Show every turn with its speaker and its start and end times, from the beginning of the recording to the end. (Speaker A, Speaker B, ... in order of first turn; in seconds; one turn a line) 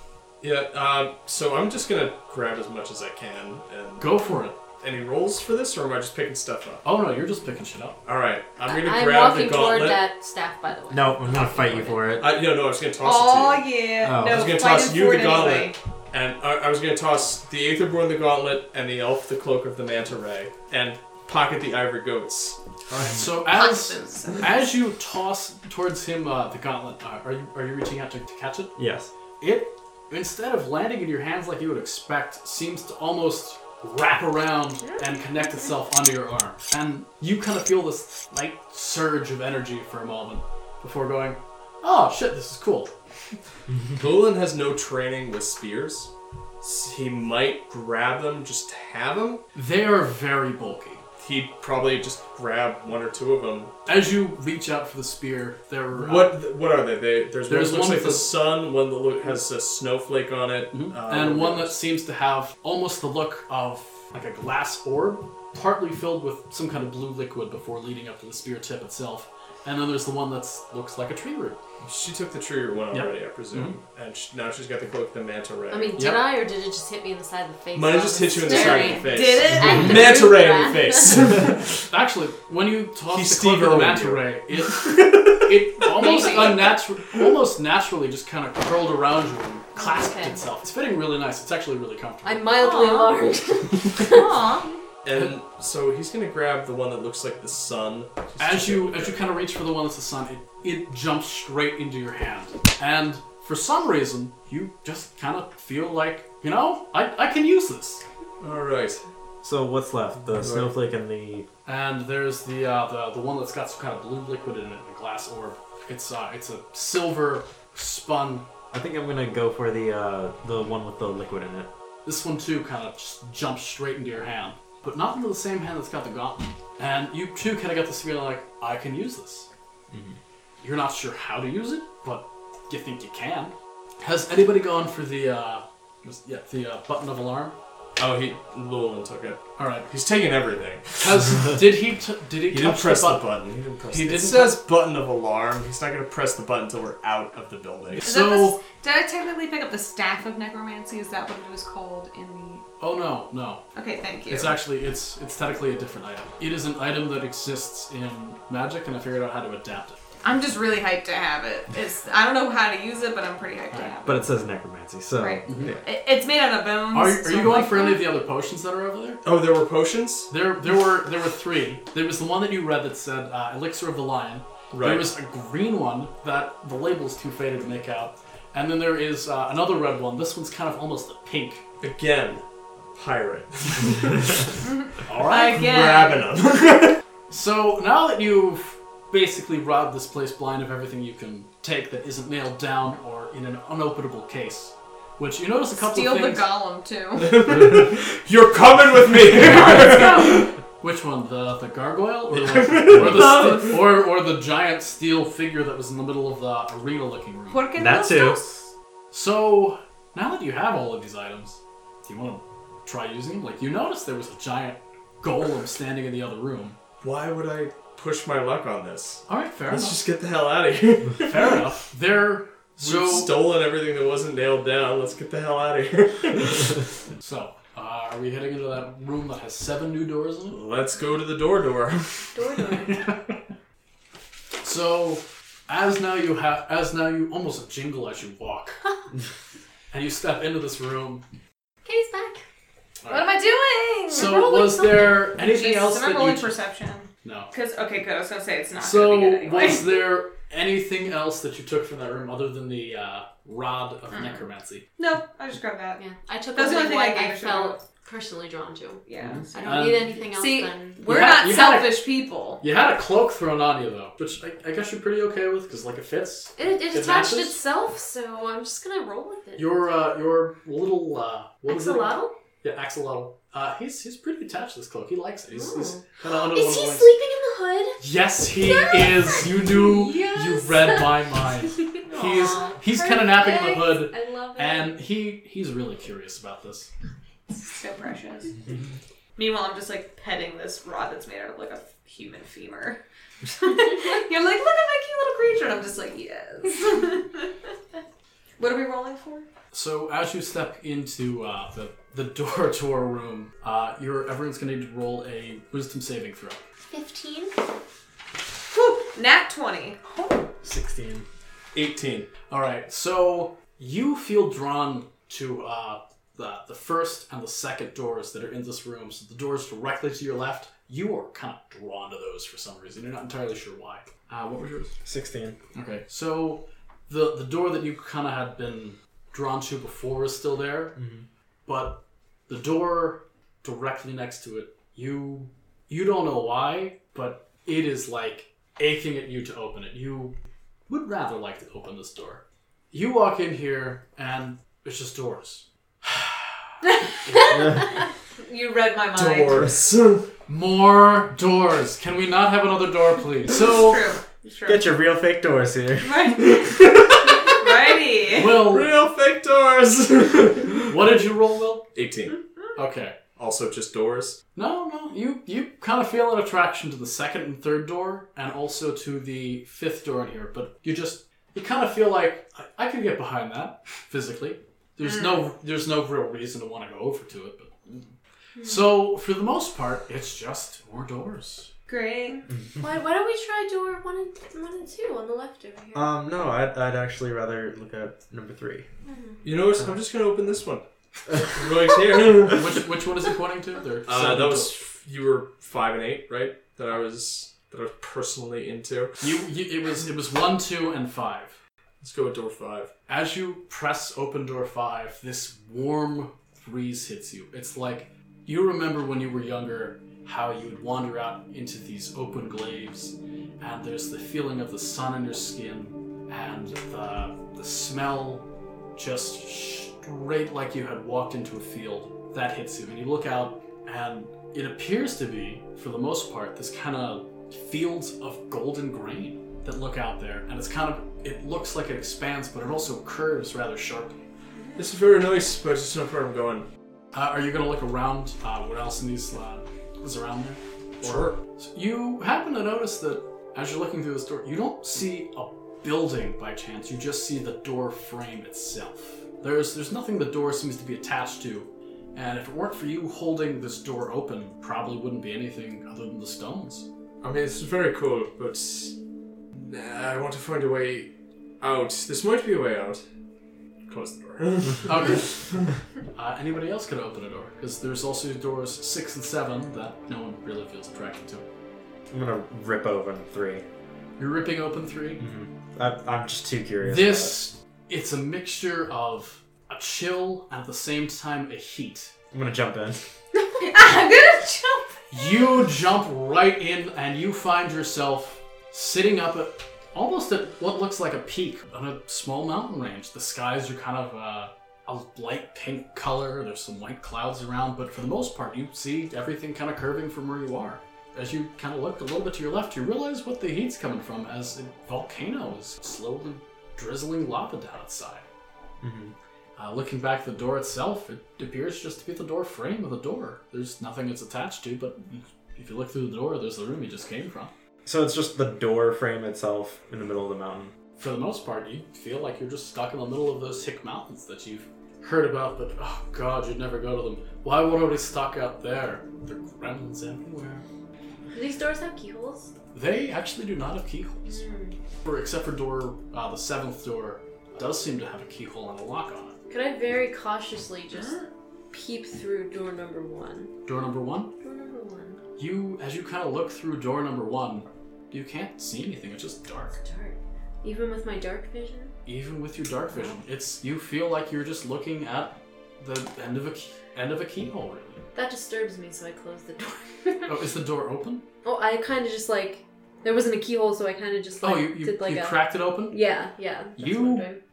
Speaker A: 0.4-4.1
Speaker B: 4.0-4.6
Speaker A: 4.8-6.8
Speaker B: 6.8-8.0
Speaker A: 8.0-10.0
Speaker C: 8.6-12.2
Speaker D: 10.9-12.4
Speaker A: 12.2-22.6
Speaker E: 13.0-15.8
Speaker D: 14.0-14.5
Speaker B: 22.9-28.8
Speaker E: 23.5-24.6
Speaker D: 28.8-29.1
Speaker B: 29.4-42.9
Speaker A: 44.0-49.4
Speaker B: 49.5-51.0
Speaker A: 51.2-53.7
Speaker B: 53.9-56.4
Speaker A: 55.9-61.8
Speaker B: 57.5-58.3
Speaker B: 60.7-71.6
Speaker A: 71.8-76.1
Speaker B: 72.9-73.8
Speaker C: 75.7-81.2
Speaker B: 76.0-76.2
Speaker A: 77.7-81.9
Speaker E: 78.4-80.1
Speaker B: 81.9-92.5
Speaker A: 83.1-85.9
Speaker E: 85.9-86.7
Speaker C: 89.8-90.4
Speaker C: 92.2-94.3
Speaker E: 92.6-93.3
Speaker E: 94.0-94.8
Speaker A: 95.0-99.4
Speaker B: 98.4-108.0
Speaker A: 108.4-109.0
Speaker D: 109.4-111.5
Speaker A: 110.3-110.7
Speaker B: 111.6-118.5
Speaker D: 118.7-121.7
Speaker B: 122.0-129.5
Speaker D: 129.9-130.2
Speaker B: 130.6-137.6
Speaker A: 138.0-141.4
Speaker B: 139.6-139.9
Speaker B: 141.0-143.3
Speaker A: 142.5-148.1
Speaker B: 143.9-144.6
Speaker B: 147.9-148.6
Speaker E: 148.0-152.6
Speaker B: 152.8-153.6
Speaker E: 153.7-154.6
Speaker B: 154.3-160.0
Speaker E: 160.2-164.2
Speaker D: 164.0-165.6
Speaker E: 165.2-168.1
Speaker B: 165.5-165.7
Speaker B: 166.9-169.2
Speaker A: 169.2-170.3
Speaker B: 170.3-181.6
Speaker A: 174.7-175.1
Speaker A: 181.8-184.6
Speaker E: 184.6-186.3
Speaker B: 185.1-185.7
Speaker A: 185.5-187.0
Speaker B: 187.3-196.5
Speaker E: 195.8-197.4
Speaker A: 197.2-200.5
Speaker B: 199.5-200.3
Speaker E: 199.8-200.2
Speaker B: 200.8-207.6
Speaker A: 202.4-203.9
Speaker E: 207.5-208.6
Speaker D: 207.8-208.5
Speaker B: 209.1-216.8
Speaker A: 217.0-221.6
Speaker B: 219.3-220.0
Speaker B: 221.3-223.4
Speaker A: 222.8-226.8
Speaker B: 227.2-230.6
Speaker A: 230.5-232.8
Speaker C: 232.3-233.0
Speaker B: 234.6-238.8
Speaker B: 239.9-241.2
Speaker C: 241.8-242.4
Speaker B: 243.0-243.3
Speaker E: 243.1-244.4
Speaker B: 244.1-246.5
Speaker C: 244.1-245.2
Speaker E: 245.4-249.8
Speaker B: 247.2-247.5
Speaker B: 248.8-254.8
Speaker E: 254.1-254.4
Speaker E: 255.0-257.8
Speaker C: 256.0-261.0
Speaker E: 259.1-262.6
Speaker B: 259.2-260.0
Speaker B: 261.1-262.0
Speaker B: 262.6-267.6
Speaker C: 266.6-269.8
Speaker B: 269.6-277.1
Speaker C: 271.7-272.3
Speaker C: 275.5-278.0
Speaker B: 278.0-286.9
Speaker C: 278.6-281.1
Speaker C: 281.9-285.0
Speaker E: 282.1-282.7
Speaker E: 287.7-288.5
Speaker E: 289.4-293.0
Speaker E: 293.6-297.5
Speaker E: 298.6-299.5
Speaker B: 299.7-306.6
Speaker C: 306.9-307.6
Speaker E: 308.7-310.4
Speaker B: 310.6-311.2
Speaker A: 311.7-312.3
Speaker B: 312.5-325.0
Speaker D: 325.0-325.6
Speaker B: 325.7-331.0
Speaker D: 331.0-331.2
Speaker B: 331.6-340.4
Speaker B: 340.9-346.5
Speaker B: 347.2-347.6
Speaker E: 348.4-349.7
Speaker A: 349.1-350.3
Speaker B: 350.5-354.0
Speaker E: 353.5-354.9
Speaker D: 354.6-356.4
Speaker E: 356.0-358.6
Speaker A: 356.8-357.2
Speaker B: 358.3-358.9
Speaker A: 358.6-361.0
Speaker B: 360.9-361.9
Speaker A: 361.9-362.4
Speaker B: 362.8-363.2
Speaker A: 363.3-364.4
Speaker B: 364.5-378.1
Speaker E: 375.0-375.4
Speaker C: 378.6-378.9
Speaker B: 378.6-381.7
Speaker E: 381.9-382.4
Speaker C: 382.3-386.1
Speaker D: 385.9-388.9
Speaker C: 389.1-389.4
Speaker A: 389.4-392.8
Speaker B: 392.5-394.8
Speaker A: 394.1-399.2
Speaker B: 399.2-401.6
Speaker A: 402.0-402.9
Speaker B: 403.1-434.2
Speaker A: 434.8-436.6
Speaker B: 437.1-456.9
Speaker A: 441.0-441.4
Speaker A: 457.2-458.9
Speaker A: 459.5-463.0
Speaker A: 463.9-465.7
Speaker B: 464.9-465.3
Speaker B: 466.1-471.4
Speaker D: 472.1-473.6
Speaker B: 474.2-475.2
Speaker D: 475.2-477.4
Speaker B: 476.8-482.1
Speaker D: 482.3-483.0
Speaker C: 483.3-483.6
Speaker E: 483.6-485.0
Speaker B: 485.1-508.2
Speaker D: 508.8-509.1
Speaker B: 509.6-517.5
Speaker D: 517.8-520.7
Speaker B: 521.0-530.6
Speaker C: 531.3-532.5
Speaker B: 532.7-534.4
Speaker C: 534.3-534.8
Speaker B: 535.0-539.4
Speaker C: 539.5-541.2
Speaker E: 540.9-541.2
Speaker C: 541.7-543.5
Speaker B: 543.6-544.3
Speaker C: 544.4-545.2
Speaker B: 545.4-549.8
Speaker C: 549.8-551.9
Speaker B: 552.0-558.0
Speaker C: 558.1-560.4
Speaker B: 560.2-561.2
Speaker C: 561.4-567.4
Speaker B: 564.4-566.0
Speaker B: 566.8-567.3